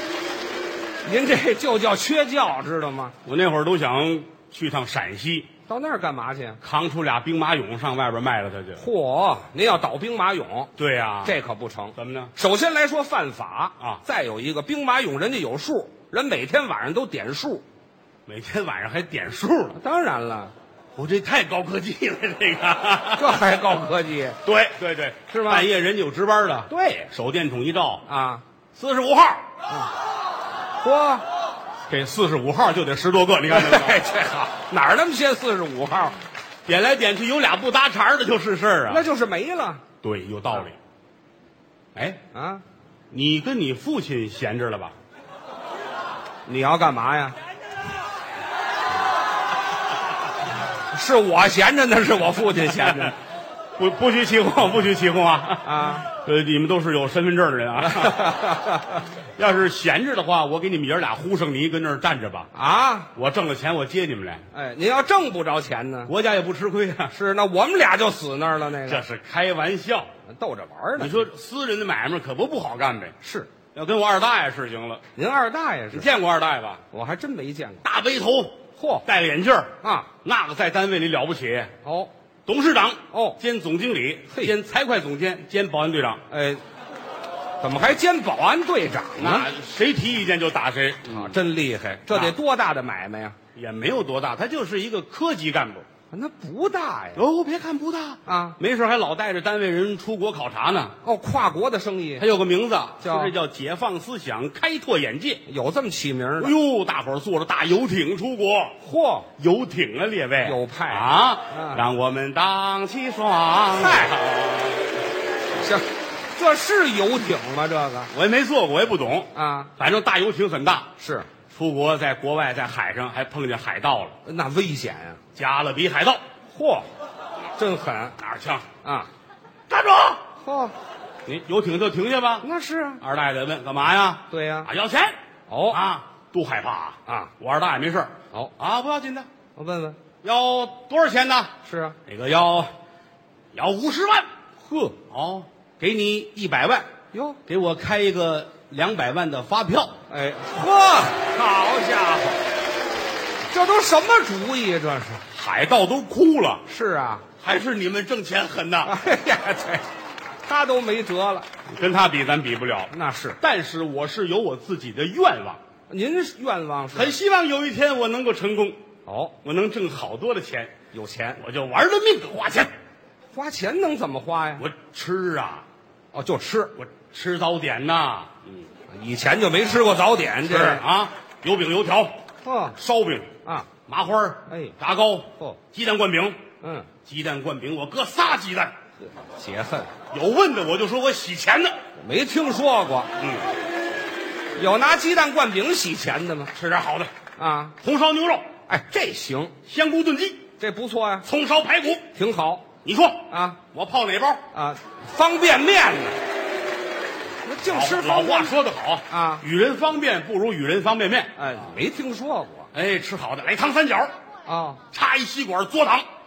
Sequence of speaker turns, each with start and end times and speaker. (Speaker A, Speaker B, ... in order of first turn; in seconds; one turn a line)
Speaker A: 1.0-3.1
Speaker B: 3.2-5.5
Speaker A: 5.7-6.6
Speaker B: 6.6-8.8
Speaker A: 8.8-10.7
Speaker B: 10.8-11.4
Speaker A: 11.2-17.6
Speaker B: 11.9-12.3
Speaker B: 18.2-19.8
Speaker A: 19.7-20.5
Speaker B: 20.9-23.5
Speaker A: 23.1-24.4
Speaker B: 24.4-28.0
Speaker A: 25.3-25.7
Speaker A: 26.7-27.1
Speaker A: 28.1-28.4
Speaker B: 28.7-29.4
Speaker A: 30.8-31.2
Speaker B: 31.9-34.1
Speaker A: 33.5-36.2
Speaker B: 36.6-39.1
Speaker A: 38.9-39.8
Speaker B: 40.0-40.8
Speaker B: 41.9-42.2
Speaker A: 42.3-42.6
Speaker B: 43.1-45.0
Speaker A: 46.5-47.4
Speaker A: 50.9-53.1
Speaker B: 52.5-53.1
Speaker B: 53.8-58.3
Speaker A: 55.6-56.0
Speaker A: 57.8-59.0
Speaker B: 59.4-62.5
Speaker A: 62.5-63.1
Speaker B: 63.1-64.4
Speaker A: 64.5-66.1
Speaker B: 66.0-67.1
Speaker A: 67.1-69.0
Speaker B: 68.8-70.1
Speaker A: 70.3-71.3
Speaker B: 71.0-73.2
Speaker A: 73.2-73.5
Speaker B: 73.7-75.0
Speaker A: 75.2-76.1
Speaker B: 75.9-76.8
Speaker A: 76.9-77.8
Speaker B: 77.8-81.7
Speaker A: 78.8-79.0
Speaker A: 79.8-80.1
Speaker A: 81.8-82.1
Speaker B: 82.5-86.2
Speaker A: 83.1-83.4
Speaker A: 86.3-86.6
Speaker A: 87.6-89.5
Speaker B: 89.2-91.4
Speaker A: 91.1-93.3
Speaker B: 92.1-92.4
Speaker B: 93.5-95.8
Speaker A: 96.1-97.2
Speaker B: 97.1-101.0
Speaker A: 98.2-98.6
Speaker A: 101.0-102.2
Speaker B: 102.2-105.5
Speaker A: 103.0-103.3
Speaker A: 105.5-106.5
Speaker B: 106.4-108.7
Speaker A: 108.8-109.3
Speaker B: 109.4-115.0
Speaker A: 110.4-111.8
Speaker A: 113.7-114.2
Speaker A: 115.6-118.1
Speaker B: 118.1-120.9
Speaker A: 119.3-119.7
Speaker A: 121.0-121.3
Speaker B: 121.5-124.2
Speaker A: 124.2-125.2
Speaker B: 125.3-126.2
Speaker A: 126.5-126.9
Speaker A: 127.6-128.2
Speaker B: 128.2-128.7
Speaker A: 128.8-129.1
Speaker B: 129.7-130.2
Speaker A: 130.4-130.7
Speaker B: 131.2-132.5
Speaker A: 132.4-133.0
Speaker B: 133.0-135.2
Speaker A: 134.3-134.7
Speaker A: 135.5-135.8
Speaker B: 135.7-139.3
Speaker A: 139.6-140.0
Speaker B: 140.2-141.5
Speaker A: 141.6-141.9
Speaker B: 142.1-142.7
Speaker B: 143.5-144.3
Speaker A: 144.6-144.9
Speaker B: 145.1-146.9
Speaker A: 147.1-147.4
Speaker B: 147.4-150.0
Speaker A: 150.1-152.4
Speaker A: 153.5-155.2
Speaker B: 155.3-156.6
Speaker A: 156.7-157.2
Speaker B: 157.4-158.9
Speaker A: 158.8-159.8
Speaker A: 160.4-161.5
Speaker B: 161.7-165.6
Speaker A: 162.9-163.4
Speaker A: 165.9-167.2
Speaker B: 166.9-168.8
Speaker A: 169.1-169.3
Speaker B: 169.4-170.7
Speaker A: 170.9-171.4
Speaker B: 171.4-172.7
Speaker A: 173.3-174.6
Speaker B: 174.6-175.6
Speaker A: 176.1-176.7
Speaker B: 176.8-178.6
Speaker A: 178.9-180.8
Speaker B: 180.4-182.1
Speaker A: 182.4-182.8
Speaker B: 182.7-183.3
Speaker B: 183.9-186.4
Speaker A: 184.5-184.7
Speaker A: 186.6-186.9
Speaker B: 187.1-188.7
Speaker A: 189.1-189.9
Speaker B: 190.1-191.7
Speaker A: 192.0-193.1
Speaker B: 193.2-193.5
Speaker A: 194.5-196.5
Speaker B: 196.5-197.1
Speaker A: 197.4-197.7
Speaker B: 197.8-198.5
Speaker A: 198.7-199.5
Speaker B: 199.6-200.5
Speaker A: 200.6-201.2
Speaker B: 201.2-202.1
Speaker A: 202.1-202.7
Speaker B: 202.8-204.5
Speaker A: 203.3-203.6
Speaker A: 204.5-206.2
Speaker A: 207.4-208.5
Speaker B: 207.7-211.4
Speaker A: 209.1-209.4
Speaker A: 211.4-212.7
Speaker B: 212.7-214.1
Speaker A: 214.4-214.8
Speaker B: 214.9-216.1